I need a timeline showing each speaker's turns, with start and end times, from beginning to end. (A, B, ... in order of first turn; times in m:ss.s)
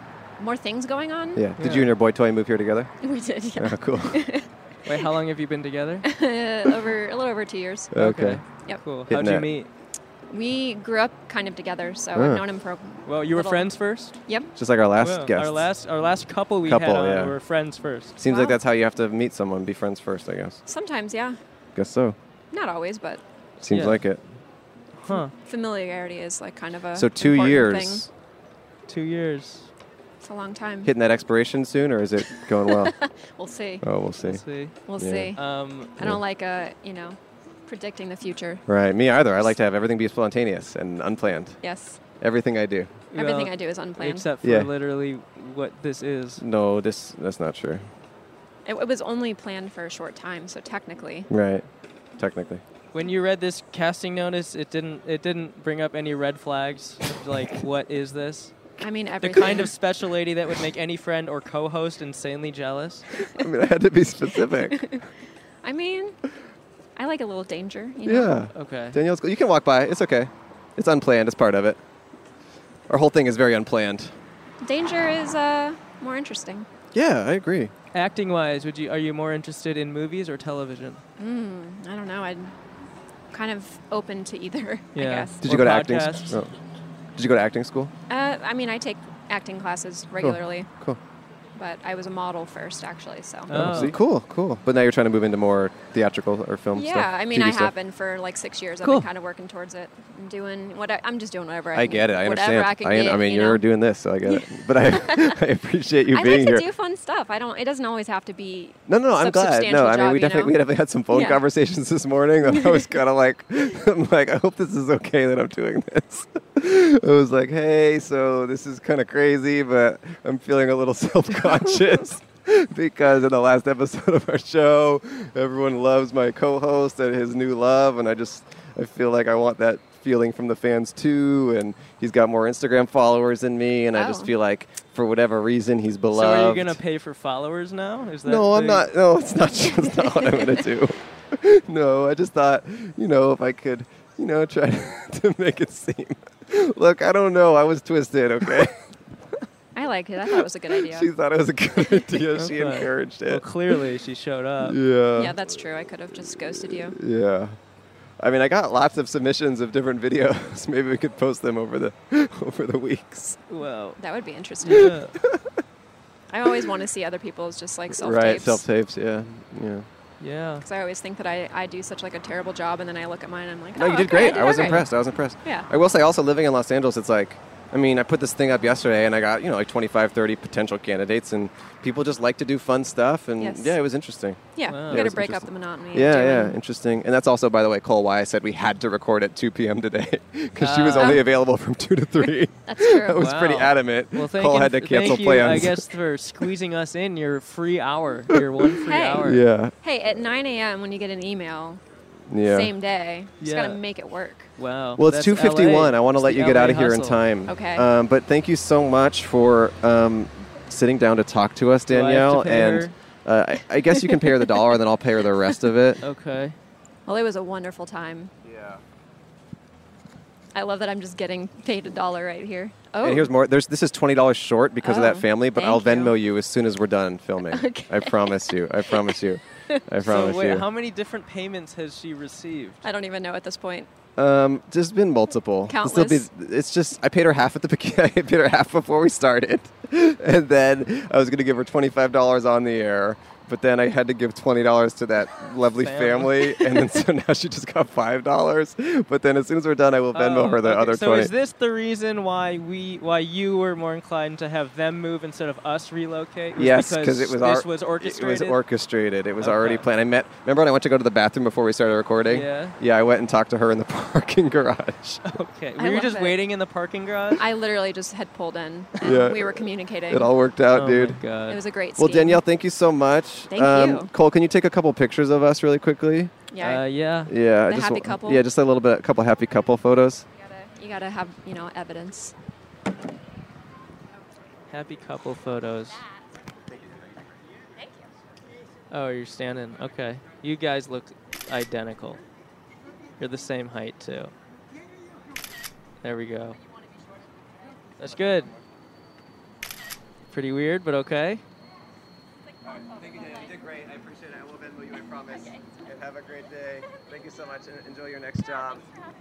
0:00.4-0:01.4 A
0:01.4-0:02.9 B
0:01.6-0:01.9 C
0:03.0-0:04.5 A
0:03.6-0:04.3 B
0:04.9-0:06.0 C
0:06.0-0:08.0 A
0:07.9-0:08.4 B
0:08.0-0:09.7 C
0:09.1-0:09.5 B
0:10.3-0:13.7 A
0:12.2-0:12.4 B
0:13.1-0:14.2 C
0:14.3-0:14.5 A
0:14.6-0:15.6 B
0:15.0-0:18.2 C
0:16.7-0:17.4 B
0:18.2-0:20.6 B
0:18.2-0:18.6 A
0:20.7-0:21.4 A
0:21.8-0:22.2 B
0:22.5-0:23.2 A
0:23.6-0:24.2 B
0:23.7-0:24.0 C
0:25.0-0:25.3 C
0:25.1-0:28.0 A
0:27.0-0:28.1 B
0:28.9-0:29.7 C
0:30.2-0:30.9 A
0:30.8-0:32.9 B
0:32.6-0:33.8 A
0:33.8-0:34.4 B
0:34.2-0:34.8 C
0:34.9-0:35.4 A
0:35.0-0:35.3 B
0:35.4-0:36.0 C
0:36.0-0:38.6 A
0:38.7-0:41.6 B
0:41.6-0:42.0 A
0:42.2-0:43.0 B
0:43.1-0:46.4 C
0:43.1-0:44.3 A
0:44.4-0:44.7 B
0:46.4-0:47.9 B
0:48.7-0:51.3 A
0:51.3-0:51.6 B
0:52.2-0:52.6 B
0:52.9-0:58.5 C
0:58.8-0:59.7 A
0:59.2-1:03.1 C
1:03.3-1:04.8 B
1:04.7-1:05.0 A
1:05.6-1:06.2 A
1:07.0-1:08.4 A
1:08.0-1:11.8 B
1:08.5-1:09.0 C
1:12.9-1:14.1 B
1:14.6-1:16.7 A
1:16.9-1:17.7 B
1:17.9-1:21.0 C
1:21.2-1:22.5 A
1:23.3-1:25.4 A
1:24.9-1:26.3 C
1:25.4-1:26.5 B
1:27.2-1:27.9 B
1:28.1-1:30.7 A
1:30.2-1:31.0 B
1:31.6-1:33.9 A
1:33.5-1:34.0 C
1:33.5-1:37.7 B
1:36.7-1:43.6 A
1:41.7-1:46.7 B
1:44.3-1:45.4 A
1:46.1-1:50.6 A
1:48.9-2:16.8 B
1:51.1-1:51.4 A
1:52.5-1:52.8 A
2:13.9-2:14.3 A
2:16.1-2:18.9 C
2:18.2-2:28.8 B
2:19.8-2:20.6 A
2:29.8-2:31.1 A
2:30.8-2:33.8 B
2:32.4-2:34.8 C
2:34.6-2:35.4 B
2:35.2-2:37.0 A
2:36.9-2:37.6 B
2:38.2-2:43.4 B
2:43.5-2:44.0 C
2:44.0-2:45.0 A
2:44.6-2:45.1 C
2:44.8-2:45.5 B
2:46.3-2:48.6 A
2:47.9-2:49.9 B
2:50.2-2:50.6 C
2:50.6-2:54.9 A
2:53.8-3:15.9 B
2:54.4-2:54.9 C
3:03.4-3:03.8 A
3:04.5-3:06.6 A
3:04.7-3:05.1 C
3:10.6-3:11.2 C
3:11.0-3:11.2 A
3:12.7-3:13.4 A
3:13.2-3:19.4 C
3:18.8-3:21.8 A
3:19.2-3:19.7 B
3:22.3-3:22.7 B
3:22.4-3:24.5 A
3:23.4-3:23.8 C
3:24.6-3:27.2 C
3:25.0-3:36.0 B
3:27.5-3:27.9 A
3:31.9-3:32.9 C
3:36.0-3:36.6 C
3:37.1-3:38.3 A
3:38.4-3:38.8 B
3:40.5-3:43.3 A
3:43.0-3:50.7 B
3:44.8-3:46.2 A
3:47.5-3:49.2 A
3:50.0-3:52.8 C
3:52.8-3:53.9 A
3:54.2-4:11.3 B
3:55.7-3:56.3 A
4:05.8-4:06.8 C
4:10.1-4:18.6 C
4:16.6-4:25.2 B
4:19.4-4:19.8 C
4:22.3-4:22.8 C
4:25.3-4:27.4 C
4:25.8-4:26.4 A
4:27.4-4:30.3 A
4:29.0-4:31.2 B
4:30.7-4:31.6 C
4:31.5-4:32.4 A
4:32.0-4:36.3 B
4:33.5-4:34.1 A
4:36.5-4:36.9 A
4:36.6-4:37.3 C
4:37.3-4:40.3 B
4:37.7-4:38.4 A
4:40.4-4:42.3 A
4:44.7-4:46.0 C
4:47.8-4:48.1 A
4:48.9-4:52.2 C
4:53.2-4:54.3 C
4:56.0-4:56.6 C
4:58.0-4:58.5 C
5:00.3-5:01.4 C
5:02.7-5:08.9 B